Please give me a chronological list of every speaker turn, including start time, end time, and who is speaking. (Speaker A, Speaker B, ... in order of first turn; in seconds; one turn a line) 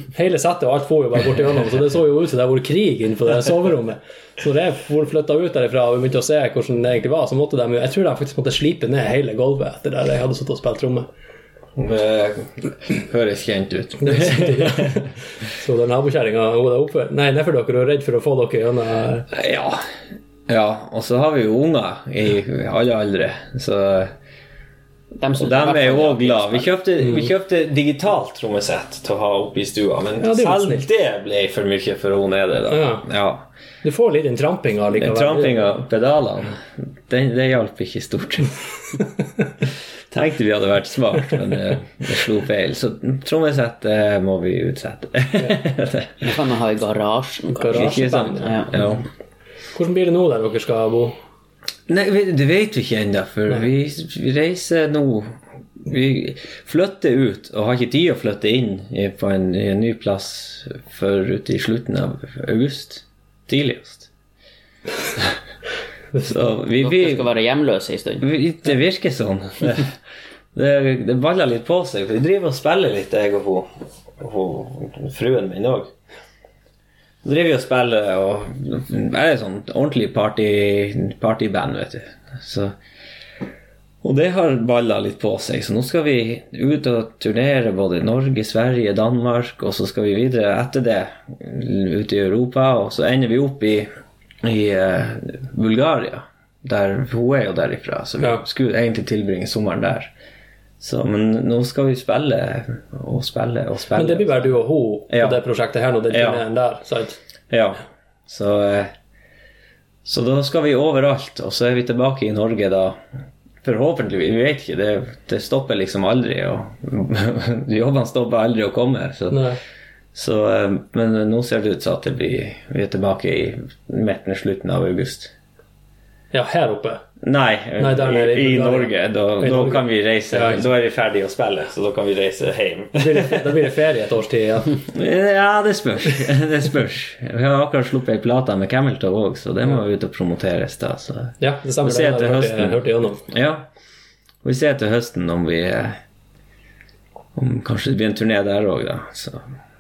Speaker A: 0.1-11.1
Speaker B: 11.8-15.0
Speaker A: 14.0-19.3
Speaker B: 19.3-19.9
Speaker B: 20.5-24.1
Speaker C: 25.2-26.7
Speaker B: 25.3-33.5
Speaker A: 30.2-30.9
Speaker A: 32.7-33.0
Speaker A: 33.8-35.7
Speaker B: 35.0-38.5
Speaker B: 40.1-46.4
Speaker C: 46.2-48.9
Speaker A: 47.5-48.6
Speaker B: 47.7-49.0
Speaker A: 49.8-51.1
Speaker B: 51.9-64.1
Speaker B: 66.2-67.3
Speaker C: 66.8-68.3
Speaker B: 68.2-69.9
Speaker B: 70.5-75.9
Speaker B: 77.2-82.7
Speaker B: 84.0-93.9
Speaker B: 94.4-100.1
Speaker B: 100.8-104.5
Speaker A: 103.9-107.2
Speaker B: 105.1-105.4
Speaker B: 106.1-106.4
Speaker B: 107.5-108.9
Speaker B: 110.0-113.0
Speaker B: 113.6-119.4
Speaker A: 119.3-119.6
Speaker B: 120.1-125.3
Speaker A: 126.3-127.0
Speaker B: 127.2-133.4
Speaker A: 127.8-130.6
Speaker A: 132.9-134.8
Speaker B: 134.9-143.7
Speaker A: 141.4-143.2
Speaker B: 144.4-146.0
Speaker B: 147.3-149.4